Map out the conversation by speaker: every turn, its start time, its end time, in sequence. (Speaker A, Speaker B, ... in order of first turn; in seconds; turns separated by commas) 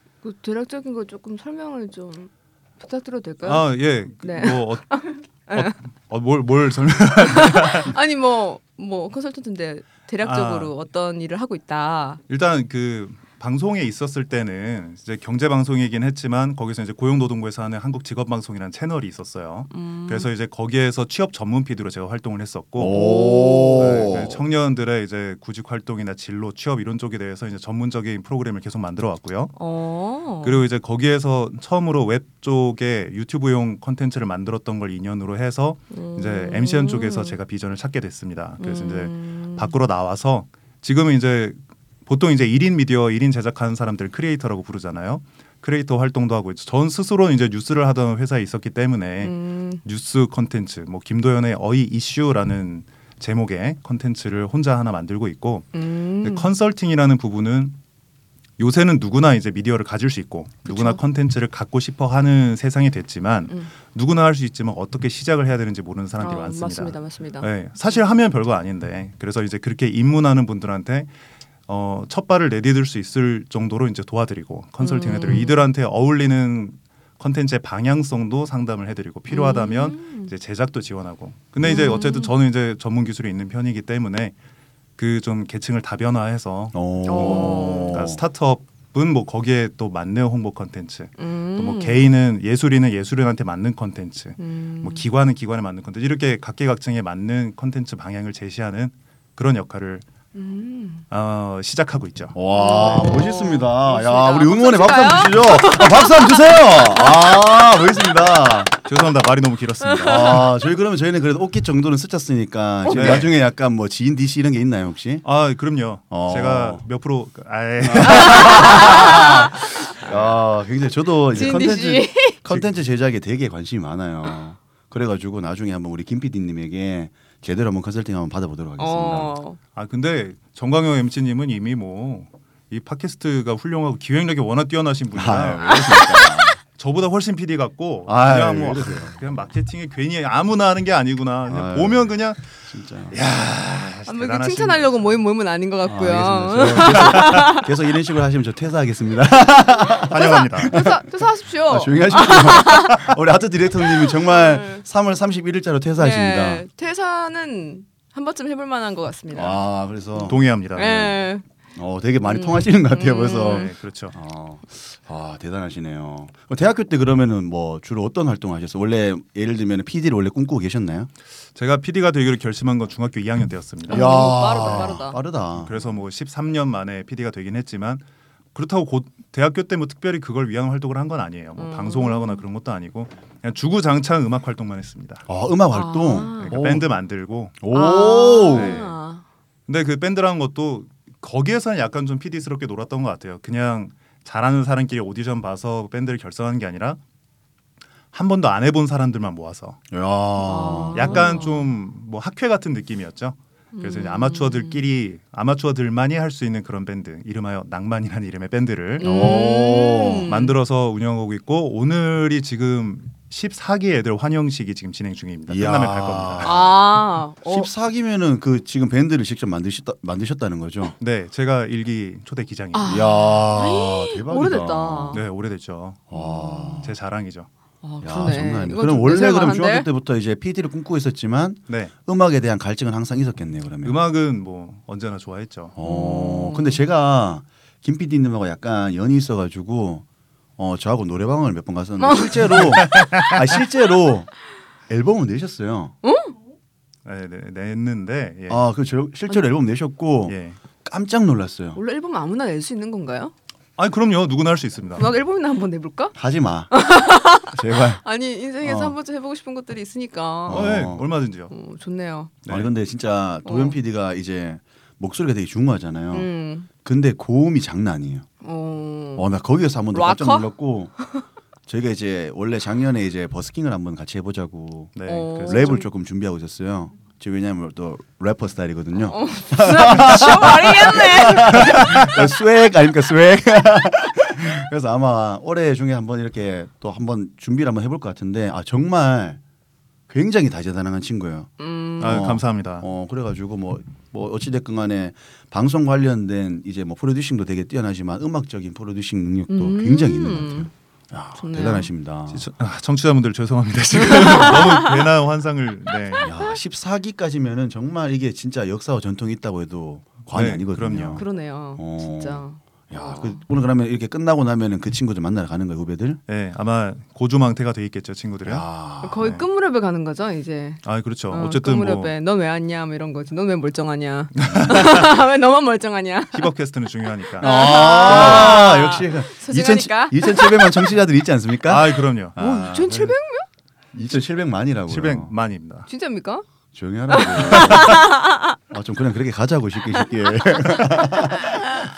Speaker A: 0.2-3.7, Speaker B: 3.4-7.9, Speaker A: 4.2-5.7, Speaker A: 7.2-12.2, Speaker B: 10.2-10.7, Speaker B: 12.3-23.1, Speaker A: 19.7-20.3, Speaker C: 22.8-24.4, Speaker A: 22.9-24.1, Speaker B: 23.8-29.5, Speaker A: 29.5-30.6, Speaker B: 30.4-55.7, Speaker A: 35.9-37.4, Speaker A: 38.6-39.7, Speaker A: 49.2-49.8, Speaker A: 55.7-56.5, Speaker B: 56.2-57.8, Speaker B: 58.6-71.1, Speaker A: 60.7-61.0, Speaker A: 66.2-67.5, Speaker B: 71.7-84.3, Speaker A: 74.8-75.7, Speaker A: 79.3-80.3, Speaker A: 81.6-82.3, Speaker B: 85.0-100.0, Speaker C: 86.7-88.2, Speaker A: 87.1-88.0, Speaker A: 91.2-92.1, Speaker A: 94.4-95.0, Speaker A: 100.3-101.0, Speaker B: 101.1-102.4, Speaker C: 102.3-108.8, Speaker A: 102.5-107.4, Speaker B: 108.8-110.5, Speaker A: 109.8-110.4, Speaker C: 110.0-115.2, Speaker A: 112.8-113.2, Speaker B: 112.9-113.3, Speaker B: 115.2-120.4, Speaker C: 116.1-116.8, Speaker C: 117.8-129.3, Speaker A: 118.2-119.8, Speaker A: 121.3-122.4, Speaker A: 128.8-129.6, Speaker B: 129.8-145.1, Speaker C: 135.1-136.6, Speaker C: 138.1-139.2, Speaker C: 141.5-142.1, Speaker C: 142.7-143.2, Speaker A: 144.1-147.7, Speaker C: 145.8-156.6, Speaker B: 146.7-147.4, Speaker A: 149.8-153.1, Speaker B: 150.1-150.8, Speaker A: 153.9-154.8, Speaker A: 156.0-159.6, Speaker C: 159.3-160.4, Speaker A: 160.2-161.5, Speaker B: 160.2-161.2, Speaker C: 161.8-171.1, Speaker A: 162.2-163.7, Speaker B: 163.4-164.2, Speaker B: 171.6-174.9, Speaker C: 173.9-175.7, Speaker A: 173.9-175.2, Speaker B: 175.6-185.3, Speaker A: 181.6-182.4, Speaker C: 185.3-186.9, Speaker A: 185.7-186.6, Speaker B: 186.4-187.6, Speaker C: 187.6-188.8, Speaker A: 187.7-189.2, Speaker B: 188.5-188.9, Speaker B: 189.7-197.0, Speaker B: 198.1-199.8, Speaker C: 199.9-201.4, Speaker A: 200.4-201.7, Speaker B: 200.9-209.4, Speaker A: 203.7-204.8, Speaker A: 209.0-210.5, Speaker C: 209.0-210.3, Speaker B: 210.3-216.6, Speaker C: 215.5-216.8, Speaker A: 216.4-217.7, Speaker C: 217.4-220.9, Speaker B: 221.0-223.1, Speaker A: 222.7-225.2, Speaker C: 222.9-225.2, Speaker B: 225.1-226.1, Speaker C: 226.1-226.9, Speaker A: 226.1-226.9, Speaker B: 226.8-227.5, Speaker A: 227.8-229.9, Speaker C: 228.0-234.0, Speaker B: 233.8-235.8, Speaker C: 235.8-240.1, Speaker A: 235.8-236.8, Speaker C: 240.6-244.3, Speaker A: 242.0-242.9, Speaker B: 242.8-243.4, Speaker C: 244.9-245.9, Speaker A: 246.0-246.4, Speaker B: 247.1-248.6, Speaker C: 248.5-251.8, Speaker B: 250.3-250.6, Speaker A: 251.8-253.3, Speaker B: 253.8-255.1, Speaker A: 255.0-256.1, Speaker C: 256.1-256.7, Speaker A: 256.7-260.8, Speaker C: 257.5-258.0, Speaker C: 258.6-258.9, Speaker C: 260.5-261.1, Speaker B: 260.5-261.5, Speaker A: 261.5-262.3, Speaker B: 262.4-262.7, Speaker C: 262.5-266.3, Speaker A: 263.4-263.8, Speaker A: 266.1-266.7, Speaker C: 266.8-268.3, Speaker A: 268.4-269.3, Speaker C: 269.2-270.9, Speaker A: 269.9-271.2, Speaker C: 271.7-289.4, Speaker B: 275.0-275.8, Speaker A: 275.1-275.9, Speaker A: 279.1-282.1, Speaker B: 281.5-282.2, Speaker C: 290.1-291.5, Speaker A: 291.6-292.3, Speaker B: 292.0-292.9, Speaker C: 292.0-302.4, Speaker A: 299.5-300.7, Speaker A: 301.4-301.9, Speaker B: 302.3-306.3, Speaker A: 304.0-305.0, Speaker A: 306.2-306.6, Speaker C: 306.2-316.2, Speaker B: 310.3-311.2, Speaker A: 311.1-313.4, Speaker B: 316.3-318.7, Speaker C: 318.4-319.3, Speaker A: 319.0-326.5, Speaker B: 320.8-322.1, Speaker B: 324.4-325.2, Speaker B: 326.3-328.7, Speaker A: 327.4-330.9, Speaker C: 327.4-333.1, Speaker B: 331.7-333.1, Speaker A: 332.4-333.5, Speaker C: 333.9-335.3, Speaker B: 334.9-335.9, Speaker A: 335.9-336.4, Speaker C: 336.7-338.1, Speaker A: 337.1-338.6, Speaker B: 337.5-338.0, Speaker C: 338.7-341.6